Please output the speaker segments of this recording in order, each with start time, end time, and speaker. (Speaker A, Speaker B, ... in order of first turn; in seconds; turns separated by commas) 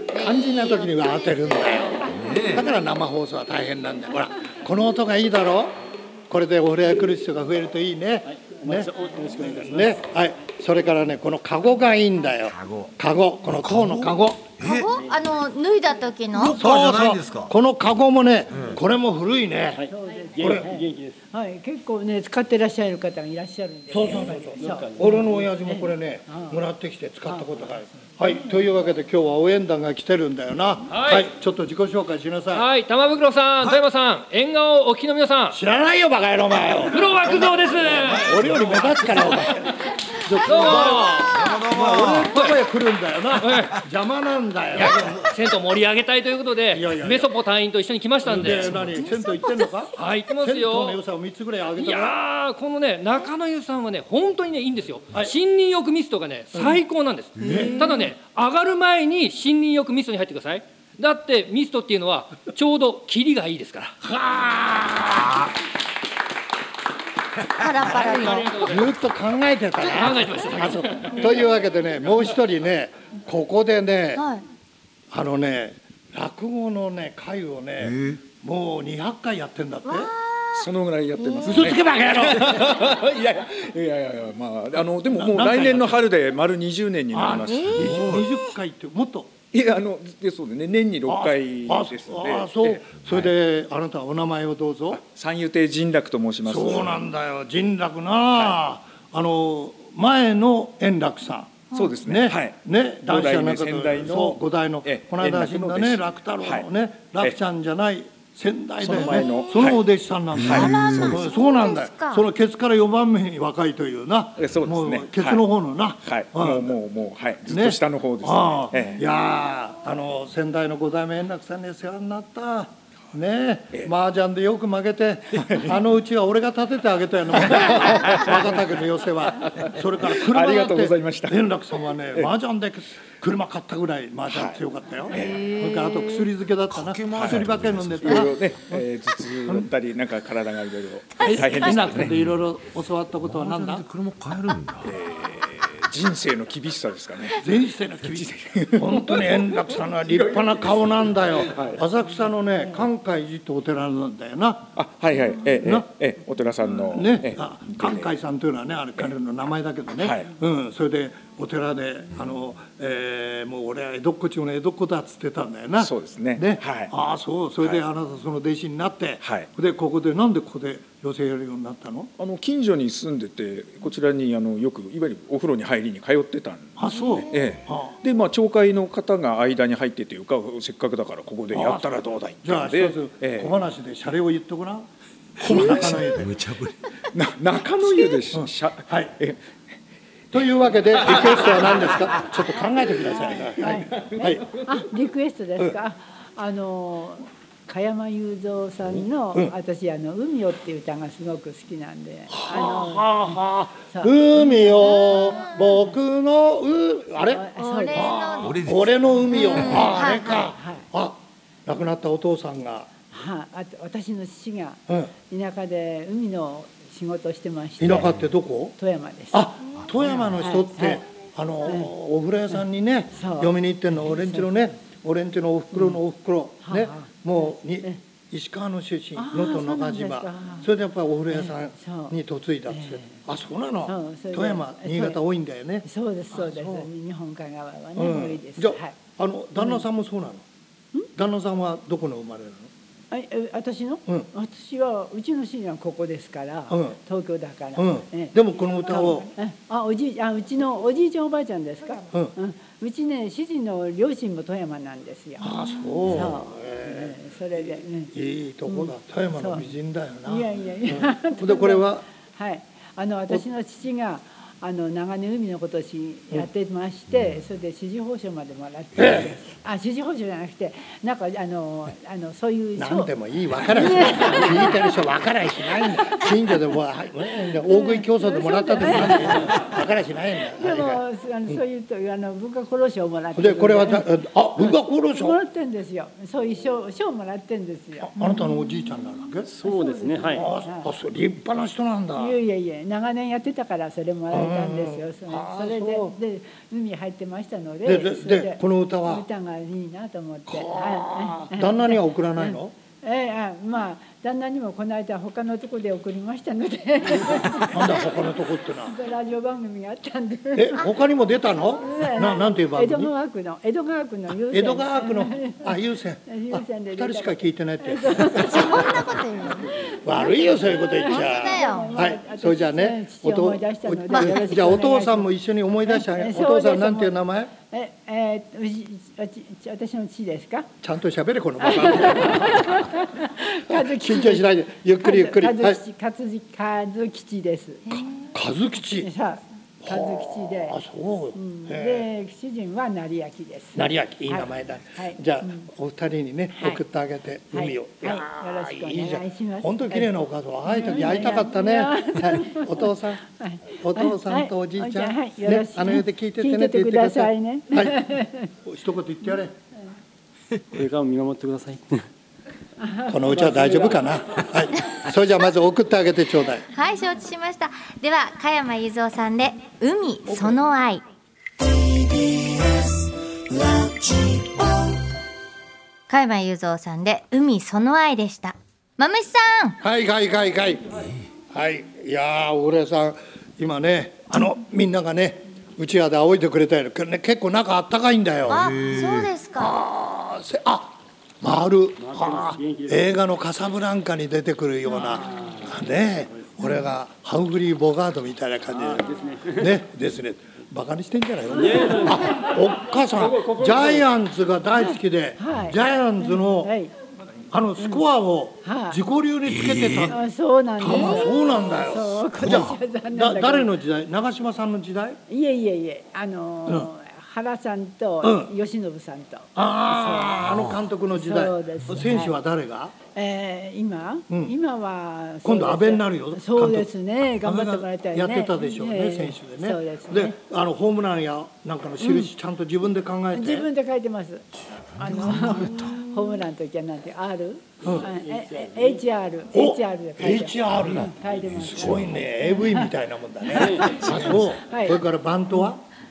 Speaker A: 0.1-2.0, Speaker B: 0.1-14.5, Speaker C: 2.1-2.7, Speaker D: 8.3-10.0, Speaker C: 12.5-12.9, Speaker C: 13.5-14.9, Speaker A: 14.6-16.6, Speaker C: 16.4-17.5, Speaker B: 16.6-19.8, Speaker D: 19.7-21.2, Speaker E: 19.9-24.9, Speaker B: 20.4-20.7, Speaker B: 23.9-32.7, Speaker D: 24.0-25.5, Speaker E: 25.7-26.6, Speaker E: 27.3-27.5, Speaker F: 30.9-31.3, Speaker F: 32.5-35.6, Speaker B: 35.5-45.3, Speaker F: 36.9-39.5, Speaker F: 40.4-41.5, Speaker C: 41.3-42.4, Speaker F: 43.4-43.8, Speaker F: 44.7-48.8, Speaker B: 46.7-47.3, Speaker B: 48.2-52.2, Speaker A: 48.9-49.6, Speaker F: 50.0-51.0, Speaker F: 51.8-64.0, Speaker B: 57.4-57.9, Speaker A: 57.4-58.0, Speaker B: 64.0-65.5, Speaker A: 67.6-68.6, Speaker B: 67.9-74.2, Speaker F: 68.0-68.9, Speaker F: 69.8-71.2, Speaker A: 74.2-74.4, Speaker B: 75.1-80.1, Speaker C: 77.8-78.2, Speaker A: 79.9-80.7, Speaker G: 80.5-88.0, Speaker A: 81.2-81.6, Speaker B: 81.4-82.8, Speaker B: 85.2-86.0, Speaker B: 87.1-89.4, Speaker A: 87.5-88.3, Speaker C: 87.8-88.3, Speaker G: 89.5-93.2, Speaker B: 91.1-95.0, Speaker G: 94.9-97.0, Speaker B: 96.5-116.8, Speaker G: 101.7-102.6, Speaker G: 103.1-106.7, Speaker G: 108.8-109.8, Speaker G: 110.4-111.2, Speaker A: 110.5-112.2, Speaker C: 110.5-111.0, Speaker G: 114.4-115.4, Speaker G: 116.0-119.0, Speaker B: 117.5-138.8, Speaker G: 125.3-125.7, Speaker G: 127.5-128.5, Speaker G: 129.4-131.4, Speaker G: 134.3-134.6, Speaker G: 135.1-135.5, Speaker C: 136.7-138.2, Speaker G: 137.2-137.4, Speaker G: 138.1-142.1, Speaker B: 141.2-143.9, Speaker C: 143.3-145.0, Speaker G: 144.8-147.4, Speaker B: 147.4-154.7, Speaker G: 148.1-150.6, Speaker G: 151.4-151.8, Speaker G: 154.8-158.1, Speaker B: 155.6-155.9, Speaker B: 156.8-172.1, Speaker G: 160.0-160.3, Speaker G: 165.8-166.9, Speaker G: 169.2-169.5, Speaker G: 172.2-183.5, Speaker B: 176.8-178.0, Speaker B: 181.5-184.9, Speaker B: 185.4-186.4, Speaker C: 185.5-186.7, Speaker G: 185.6-186.2, Speaker G: 187.1-189.4, Speaker B: 188.3-189.1, Speaker B: 190.3-194.4, Speaker E: 193.5-203.4, Speaker B: 202.3-212.9, Speaker E: 203.9-205.6, Speaker A: 205.0-205.5, Speaker E: 207.3-208.1, Speaker A: 207.6-208.7, Speaker C: 208.4-208.9, Speaker A: 209.3-210.5, Speaker E: 210.6-210.8, Speaker E: 213.1-218.1, Speaker B: 217.8-218.8, Speaker E: 218.8-219.4, Speaker B: 219.3-236.9, Speaker E: 220.3-221.0, Speaker E: 221.7-221.9, Speaker E: 223.1-224.5, Speaker E: 226.7-227.1, Speaker E: 229.2-230.7, Speaker E: 231.3-232.1, Speaker E: 232.7-233.2, Speaker E: 233.8-235.2, Speaker E: 235.8-238.9, Speaker B: 238.0-240.4, Speaker B: 241.2-242.7, Speaker E: 243.1-258.1, Speaker B: 246.7-247.0, Speaker B: 247.8-249.3, Speaker B: 255.4-262.1, Speaker E: 258.7-259.7, Speaker E: 260.3-274.8, Speaker B: 269.0-269.4, Speaker B: 272.8-281.6, Speaker E: 277.7-279.6, Speaker E: 280.6-284.1, Speaker B: 283.4-285.4, Speaker E: 285.0-288.4, Speaker B: 288.0-289.5, Speaker D: 289.5-290.5, Speaker E: 289.6-290.9, Speaker B: 290.3-292.4, Speaker E: 292.2-308.0, Speaker B: 294.3-296.2, Speaker B: 297.9-299.2, Speaker B: 300.5-302.8, Speaker B: 307.3-309.0, Speaker E: 308.8-310.9, Speaker B: 310.5-313.1, Speaker E: 311.8-319.0, Speaker B: 314.5-319.0, Speaker A: 318.3-319.7, Speaker E: 319.9-325.3, Speaker B: 320.0-327.5, Speaker A: 321.0-322.0, Speaker E: 325.9-327.2, Speaker E: 327.7-330.7, Speaker B: 330.8-332.9, Speaker E: 331.6-334.4, Speaker B: 333.5-335.8, Speaker E: 335.0-338.0, Speaker B: 337.9-339.1, Speaker E: 339.0-340.8, Speaker B: 339.8-342.1, Speaker E: 341.4-345.7, Speaker B: 343.8-353.2, Speaker E: 346.6-346.8, Speaker E: 347.5-350.1, Speaker E: 350.7-358.5, Speaker B: 353.8-358.1, Speaker B: 358.6-359.6, Speaker D: 360.7-362.1, Speaker E: 362.8-363.2, Speaker B: 363.1-366.7, Speaker D: 363.3-364.1, Speaker A: 366.7-371.0, Speaker A: 373.5-374.6, Speaker A: 376.1-379.8, Speaker B: 379.8-388.8, Speaker A: 388.5-389.7, Speaker C: 388.8-389.3, Speaker B: 389.6-406.7, Speaker D: 392.0-393.2, Speaker D: 395.0-395.7, Speaker D: 396.3-396.6, Speaker D: 398.7-399.7, Speaker D: 401.5-404.1, Speaker E: 404.8-406.9, Speaker B: 407.5-410.2, Speaker E: 408.6-409.0, Speaker C: 409.5-410.1, Speaker E: 410.1-413.7, Speaker B: 410.8-415.2, Speaker E: 415.3-420.5, Speaker B: 418.2-418.5, Speaker B: 419.6-422.9, Speaker E: 421.1-422.4, Speaker E: 423.1-430.4, Speaker B: 424.3-424.6, Speaker B: 425.4-426.9, Speaker B: 427.4-433.7, Speaker E: 432.0-432.3, Speaker E: 433.3-442.9, Speaker B: 435.3-435.6, Speaker D: 437.8-439.0, Speaker B: 439.5-445.8, Speaker E: 443.5-445.0, Speaker D: 443.6-444.0